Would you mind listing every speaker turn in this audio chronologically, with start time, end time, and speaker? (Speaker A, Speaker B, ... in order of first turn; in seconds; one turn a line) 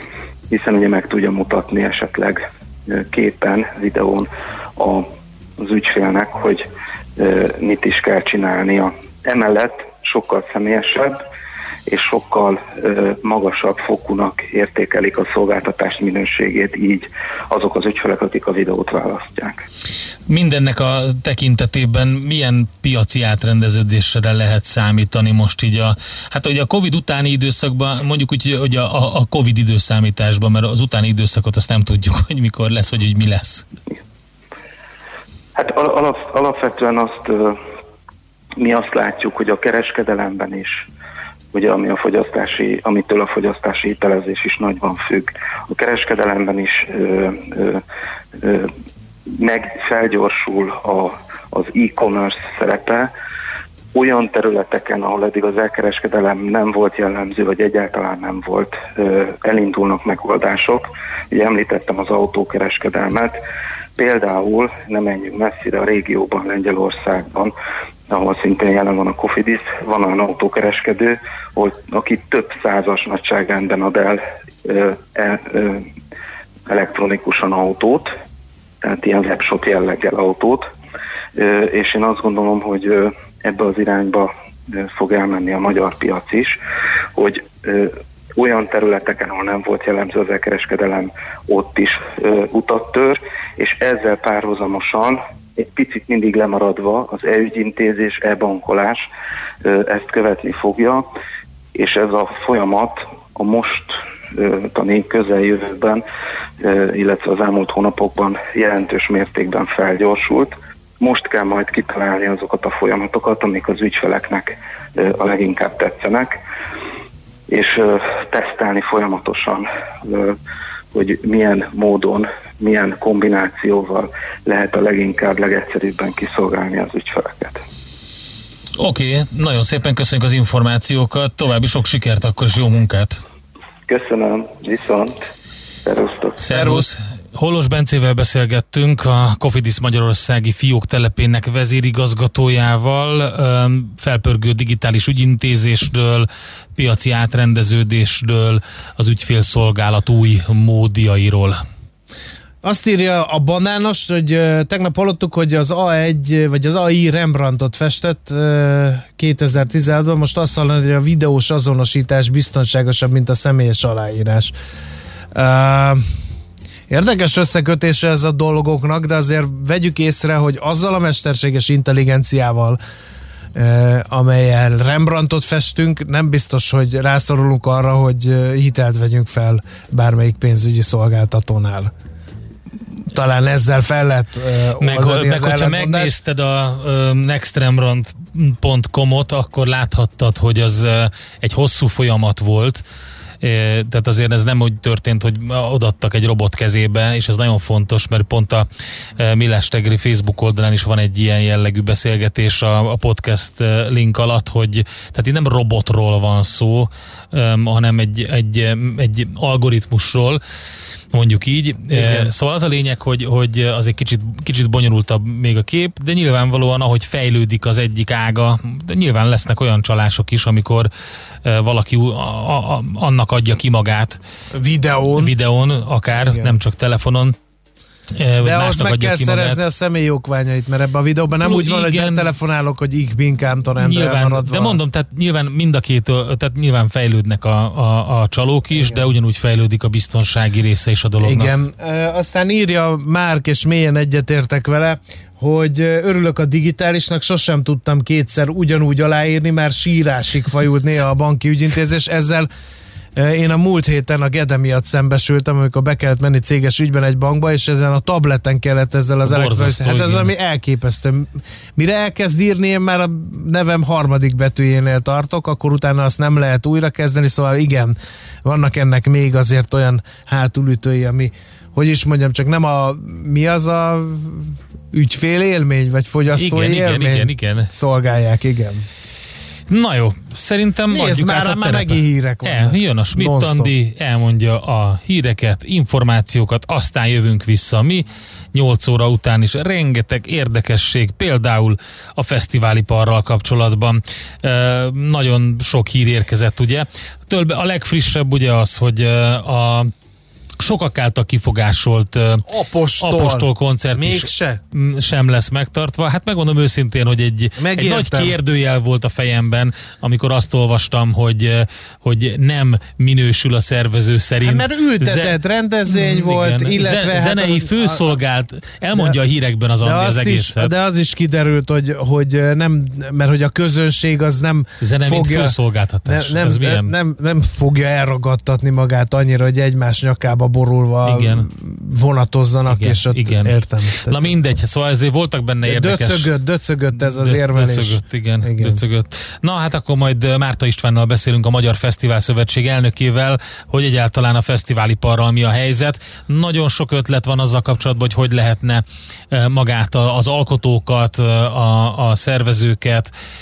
Speaker A: 0.5-5.1
Speaker A: 5.6-6.7
Speaker A: 7.2-11.2
Speaker A: 11.9-19.6
Speaker B: 20.3-33.6
Speaker A: 35.6-37.6
Speaker A: 38.6-40.9
Speaker A: 41.5-47.8
Speaker A: 48.4-48.7
Speaker A: 49.3-53.1
Speaker A: 53.9-63.4
Speaker A: 64.0-67.5
Speaker A: 68.1-75.9
Speaker A: 76.7-78.1
Speaker A: 78.8-80.7
Speaker A: 81.4-86.6
Speaker A: 87.2-99.0
Speaker A: 99.6-101.1
Speaker A: 101.8-106.0
Speaker A: 106.6-116.4
Speaker A: 117.5-120.4
Speaker A: 120.9-127.6
Speaker B: 128.8-133.2
Speaker A: 133.9-135.3
Speaker A: 135.8-136.5
Speaker B: 136.4-151.6
Speaker C: 136.5-136.9
Speaker C: 152.6-164.5
Speaker C: 165.3-166.0
Speaker C: 166.9-172.8
Speaker C: 173.6-181.9
Speaker C: 183.1-186.2
Speaker B: 184.8-192.8
Speaker B: 193.4-198.7
Speaker B: 199.2-210.4
Speaker B: 211.1-220.9
Speaker C: 211.9-212.3
Speaker B: 221.4-224.2
Speaker C: 224.5-225.3
Speaker B: 225.2-227.3
Speaker C: 226.2-226.6
Speaker B: 228.2-229.6
Speaker C: 228.4-234.8
Speaker B: 231.4-232.3
Speaker B: 233.8-241.5
Speaker C: 238.7-239.0
Speaker C: 241.2-252.5
Speaker C: 253.2-278.9
Speaker B: 259.2-260.3
Speaker B: 276.3-277.7
Speaker B: 279.7-299.9
Speaker C: 280.9-283.7
Speaker B: 300.6-302.4
Speaker C: 302.5-304.6
Speaker B: 303.0-320.7
Speaker C: 307.6-308.3
Speaker C: 314.4-318.2
Speaker C: 319.8-325.6
Speaker B: 324.8-326.9
Speaker C: 326.1-334.3
Speaker B: 331.1-331.5
Speaker B: 332.7-336.3
Speaker C: 335.7-338.8
Speaker B: 336.9-353.1